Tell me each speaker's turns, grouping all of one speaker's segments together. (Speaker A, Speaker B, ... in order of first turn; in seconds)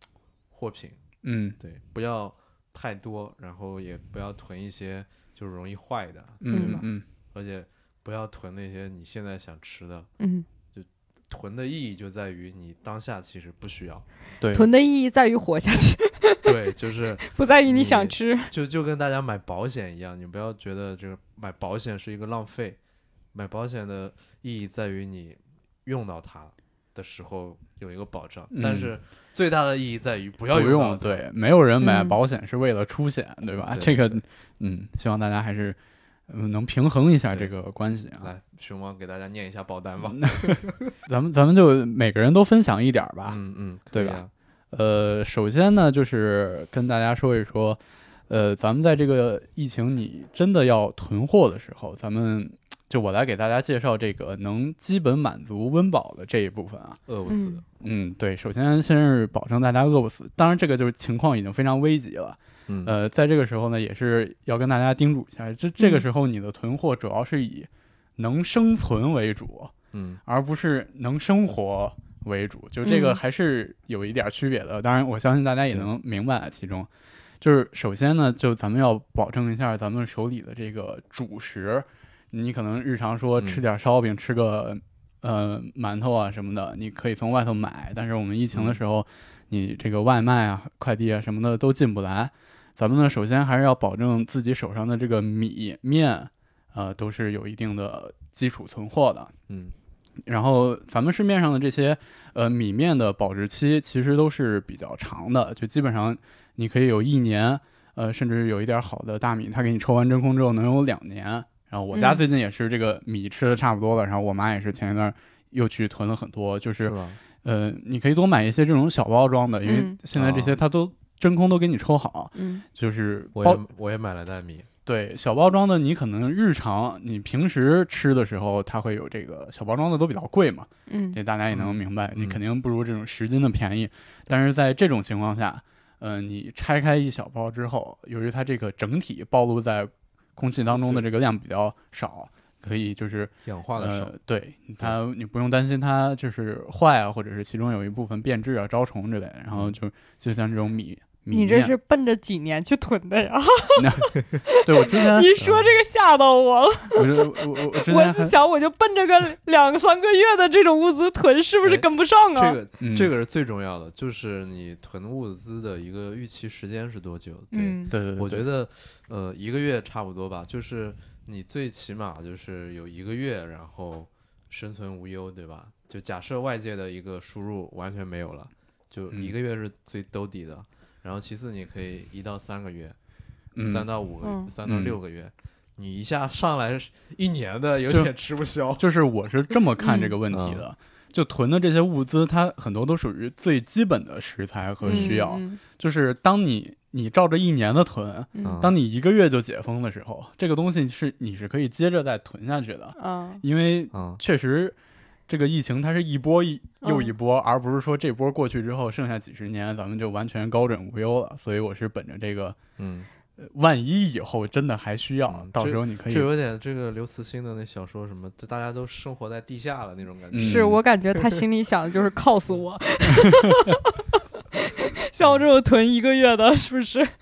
Speaker A: 0.5-1.0, 1.6-10.1, 10.7-14.1, 16.4-22.8, 23.3-31.2, 33.6-34.2, 38.2-40.9, 43.3-44.3, 57.1-57.6, 62.7-63.0, 69.9-70.2, 83.4-83.6, 88.5-88.8, 99.5-99.7, 116.8-117.2, 120.2-120.6, 123.3-124.7, 131.5-132.4, 140.7-141.1, 143.4-144.2, 149.5-149.8, 155.4-155.7, 161.6-183.0, 183.6-188.9, 190.3-190.6, 194.8-195.2, 198.4-198.7, 203.9-204.2, 212.8-213.1, 215.3-220.8, 225.2-225.5
Speaker B: 1.2-1.6, 6.4-7.0, 14.4-14.7, 28.5-28.9, 30.5-35.8, 36.3-38.3, 40.1-43.4, 43.9-57.0, 57.8-69.7, 70.3-76.9, 77.4-99.3, 100.3-123.6, 124.9-151.8, 153.8-155.4, 156.9-158.3, 162.8-163.1, 167.9-168.5, 183.6-183.9, 184.7-185.0, 188.8-204.8, 205.3-212.6, 213.4-216.3, 220.3-220.8
Speaker C: 6.5-6.8, 10.2-10.4, 14.5-16.5, 17.3-18.5, 31.8-32.2, 57.3-57.6, 65.8-66.0, 72.8-73.2, 111.9-112.2, 119.7-120.0, 122.3-122.6, 130.9-131.2, 151.3-162.6, 167.5-167.9, 184.2-184.5, 189.8-190.1, 194.9-195.6, 203.0-203.4, 206.8-207.1, 220.4-224.0, 224.5-227.1